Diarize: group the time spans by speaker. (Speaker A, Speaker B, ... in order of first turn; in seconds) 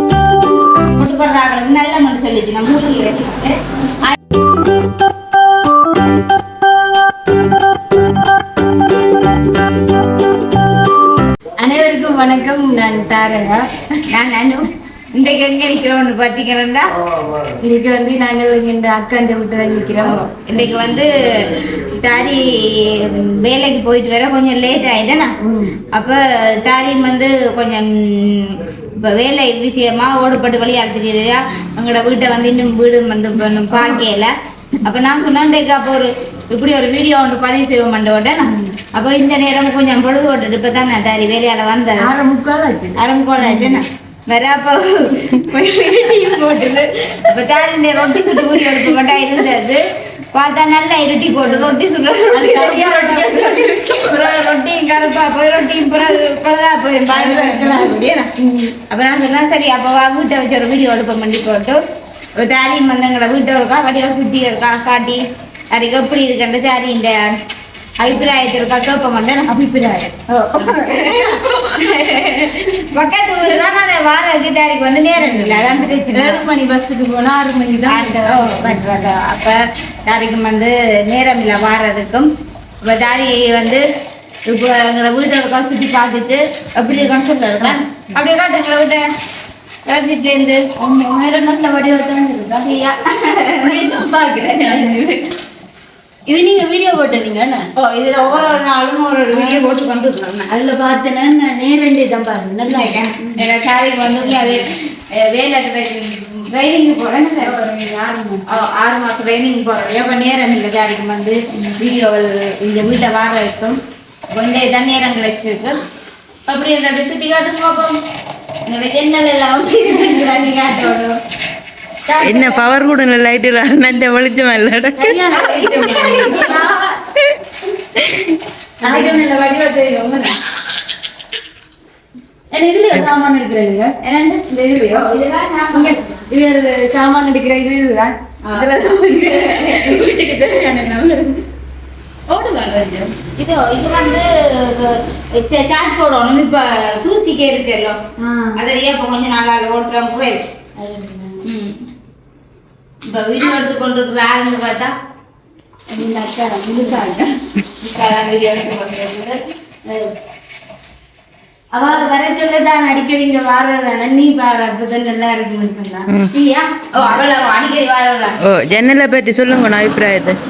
Speaker A: 1.0-3.6, 14.1-16.9, 20.0-25.3, 25.9-34.3, 34.8-42.0, 43.0-49.8, 50.3-58.3, 58.9-61.8, 62.4-67.3, 68.0-69.5, 70.3-76.4, 77.9-82.3, 82.8-83.8, 84.5-89.0, 89.9-90.6, 92.7-93.9, 97.8-100.5, 102.6-104.6, 105.2-107.5, 108.5-113.8, 114.3-115.8, 116.5-118.0, 118.7-121.1, 122.1-122.6, 125.3-126.7, 128.8-129.2, 134.0-136.2, 138.4-138.7, 139.2-140.4, 143.4-148.0, 148.6-150.4, 151.4-151.8, 153.1-154.9, 157.8-159.4, 166.3-168.4
Speaker B: 11.6-13.6, 17.6-20.2, 25.4-25.8, 38.5-38.8, 42.0-43.8, 45.4-46.9, 48.1-48.9, 51.4-51.7, 52.3-54.5, 57.1-58.7, 69.5-70.9, 75.2-79.1, 86.9-88.1, 90.8-92.9, 93.6-95.3, 96.3-97.7, 99.3-99.6, 100.5-103.4, 104.2-104.6, 107.4-108.5, 111.5-111.8, 125.0-126.9, 128.8-130.3, 132.5-133.9, 134.8-135.1, 135.7-141.4, 142.3-143.1, 148.2-148.6, 150.8-151.4, 155.9-157.3, 161.7-166.1
Speaker C: 122.2-125.1, 128.0-128.3, 168.4-170.4